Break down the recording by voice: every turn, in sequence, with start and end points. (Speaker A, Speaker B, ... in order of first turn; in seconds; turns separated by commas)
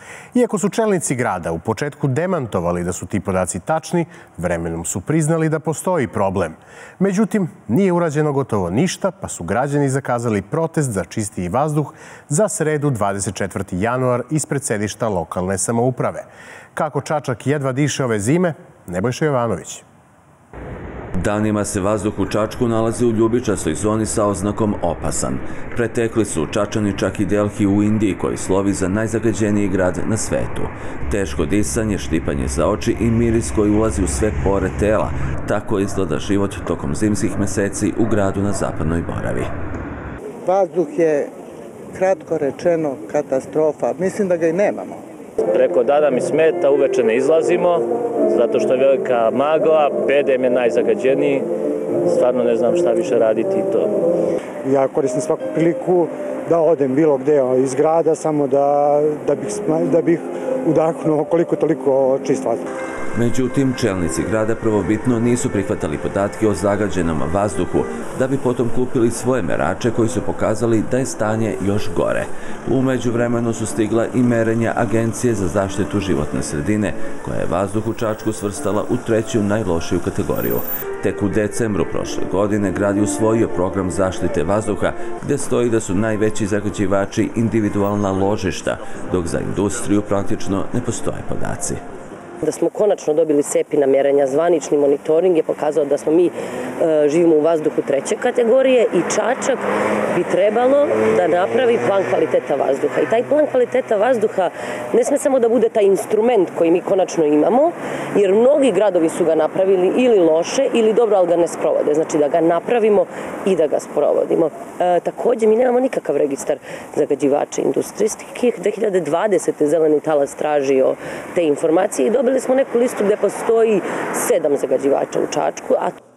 Speaker A: 0.3-19.8, Speaker B: 21.2-39.5, Speaker C: 40.5-41.3, Speaker C: 41.9-45.0, Speaker D: 45.5-51.5, Speaker D: 52.0-53.9, Speaker E: 54.6-62.6, Speaker B: 63.1-91.8, Speaker F: 92.4-125.9